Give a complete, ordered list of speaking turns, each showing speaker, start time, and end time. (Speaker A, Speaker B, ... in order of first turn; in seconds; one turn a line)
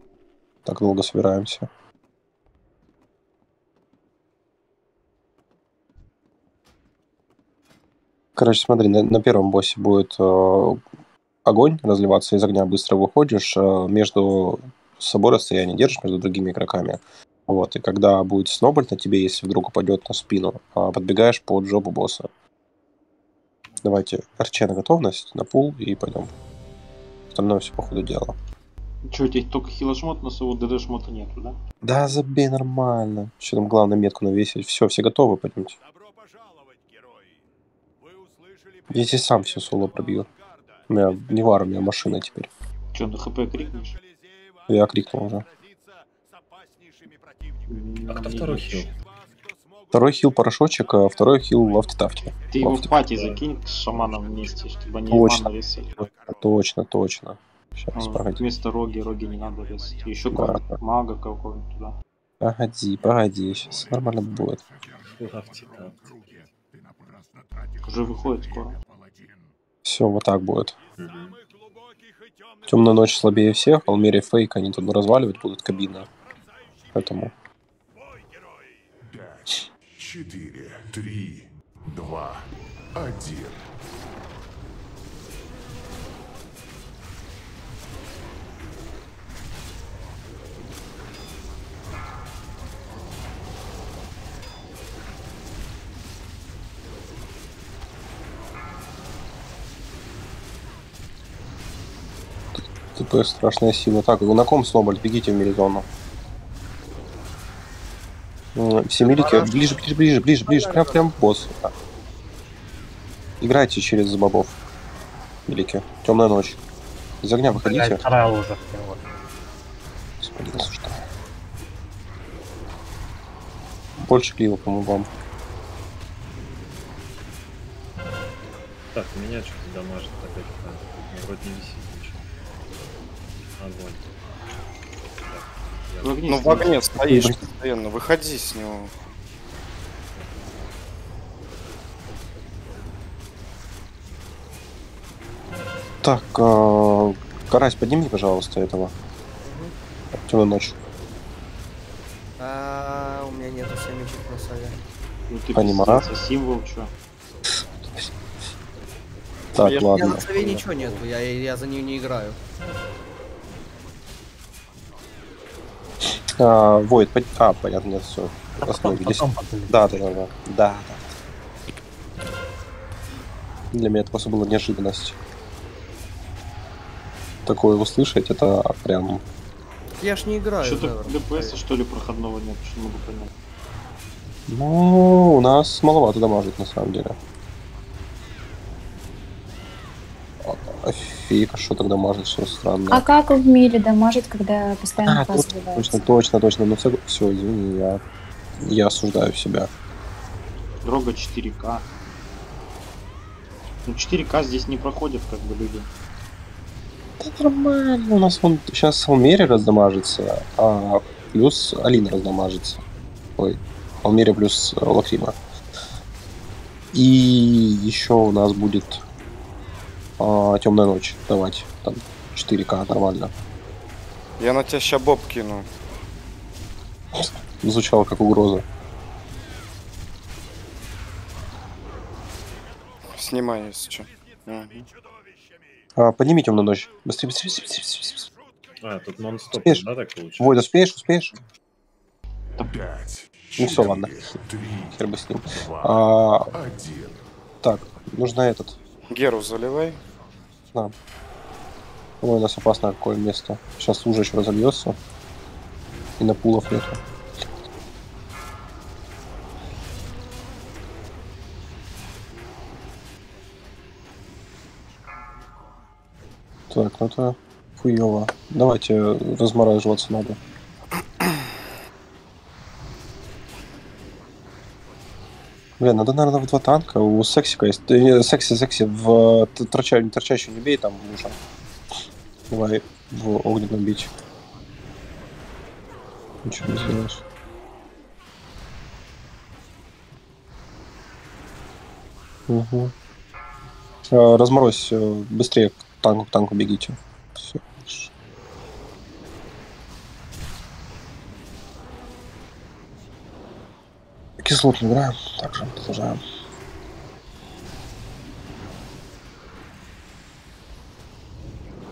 Speaker A: 0.7-1.7
Speaker A: 8.3-10.8
Speaker A: 11.4-22.3
Speaker A: 23.8-26.3
Speaker A: 27.3-28.4
Speaker B: 29.1-31.6
Speaker A: 31.8-35.8
Speaker A: 38.9-40.3
Speaker A: 40.9-42.5
Speaker B: 42.9-43.9
Speaker A: 44.7-45.5
Speaker B: 47.7-48.8
Speaker C: 48.1-48.9
Speaker A: 49.9-52.9
Speaker B: 52.5-55.9
Speaker C: 52.9-54.3
Speaker A: 55.1-58.5
Speaker B: 57.9-61.9
Speaker A: 60.3-60.8
Speaker A: 62.4-64.6
Speaker C: 65.1-66.5
Speaker B: 67.8-68.8
Speaker A: 69.8-70.8
Speaker C: 71.0-71.4
Speaker A: 72.7-76.1
Speaker A: 76.9-77.3
Speaker D: 79.1-83.6
Speaker A: 102.6-105.8
Speaker A: 108.5-111.7
Speaker E: 109.0-109.8
Speaker A: 113.4-114.5
Speaker A: 115.5-116.6
Speaker A: 117.2-118.0
Speaker E: 117.5-119.0
Speaker A: 120.2-121.0
Speaker A: 124.0-125.1
Speaker C: 128.9-132.2
Speaker C: 133.6-134.0
Speaker C: 135.1-136.6
Speaker B: 136.0-136.7
Speaker F: 136.3-138.9
Speaker A: 136.9-137.4
Speaker A: 146.0-148.9
Speaker G: 149.4-149.7
Speaker A: 150.2-150.8
Speaker G: 152.4-154.8
Speaker B: 155.3-156.9
Speaker A: 155.5-156.1
Speaker A: 159.5-160.6
Speaker G: 159.6-162.4
Speaker A: 166.4-171.1
Speaker E: 168.6-170.0
Speaker A: 173.7-175.2
Speaker A: 177.4-179.2
Speaker G: 180.0-181.6
Speaker B: 180.6-183.3
Speaker A: 184.5-187.2
Speaker A: 190.4-193.0
Speaker H: 192.9-196.1
Speaker A: 195.0-198.0
Speaker A: 198.6-199.7
Speaker B: 200.8-201.8
Speaker B: 203.8-205.9
Speaker A: 207.2-212.8
Speaker A: 213.4-215.4
Speaker A: 216.9-219.0
Speaker A: 220.2-223.3
Speaker F: 224.4-225.7
Speaker A: 227.1-228.6
Speaker F: 233.1-234.8
Speaker A: 235.9-238.3
Speaker C: 238.8-240.6
Speaker A: 239.5-239.8
Speaker A: 240.4-241.3
Speaker D: 242.6-247.2
Speaker A: 243.6-244.4
Speaker A: 244.9-246.5
Speaker A: 247.6-248.8
Speaker F: 249.1-250.0
Speaker A: 252.2-255.0
Speaker A: 256.2-257.0
Speaker A: 266.7-270.4
Speaker A: 275.8-281.4
Speaker A: 282.5-284.1
Speaker A: 286.4-287.2
Speaker A: 292.5-292.9
Speaker A: 294.1-298.1
Speaker A: 304.4-306.2